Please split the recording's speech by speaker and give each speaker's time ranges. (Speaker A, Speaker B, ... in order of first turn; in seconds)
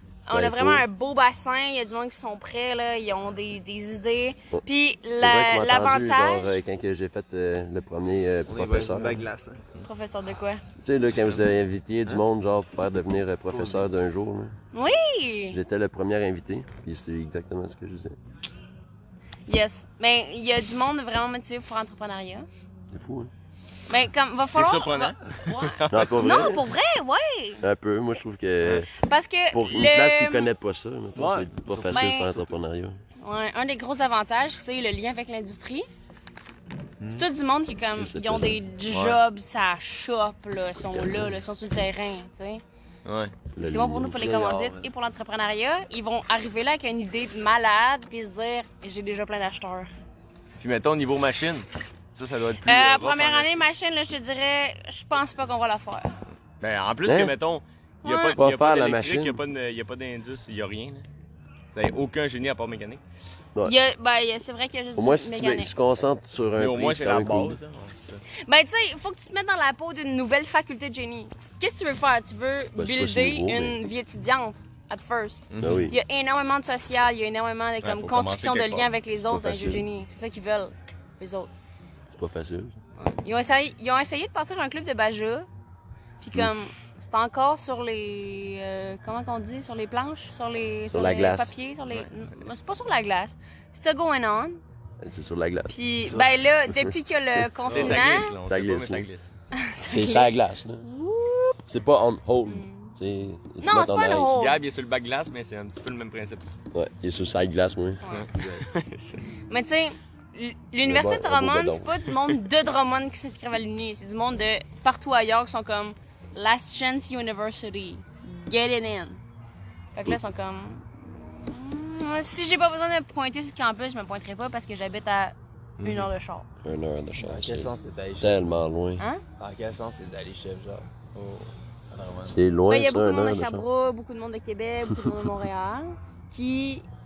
Speaker A: 0.3-6.6, 9.8-10.6, 14.7-15.6, 19.5-22.5, 23.9-27.6, 29.0-30.5, 31.9-32.3, 33.2-35.9, 37.1-42.6, 43.6-49.9, 52.6-56.2, 58.0-58.4, 63.6-65.7, 68.5-81.5, 83.2-85.5, 86.2-94.6, 95.7-98.4, 99.5-101.5, 102.5-102.9, 103.6-104.6, 109.5-119.2, 120.0-120.8, 121.4-126.5, 132.7-136.9
Speaker B: 0.3-0.9, 5.2-9.2, 10.8-14.5, 15.5-18.2, 22.9-23.3, 25.9-26.7, 27.6-28.9, 29.5-33.0, 37.9-38.6, 40.9-41.4, 43.5-44.5, 57.0-57.3, 58.4-59.4, 65.0-67.6, 72.8-73.8, 75.6-76.0, 79.3-79.8, 82.1-82.8, 90.9-91.5, 95.0-95.7, 97.4-97.9, 98.4-99.1, 99.8-100.9, 101.7-104.4, 106.7-108.0, 110.8-111.9, 126.6-129.1, 132.3-133.7
Speaker C: 8.5-9.6, 13.5-13.9, 31.1-32.2, 37.0-37.3, 44.2-44.9, 97.7-98.0, 108.3-108.6, 127.2-128.6, 129.4-132.4
Speaker D: 24.5-26.4, 38.9-39.2, 43.0-43.3, 50.6-53.6, 56.6-61.1, 61.7-63.0, 66.6-68.2, 75.5-75.9, 77.8-78.9, 91.9-92.5, 97.7-99.3, 104.3-106.5, 108.1-109.2, 125.8-126.1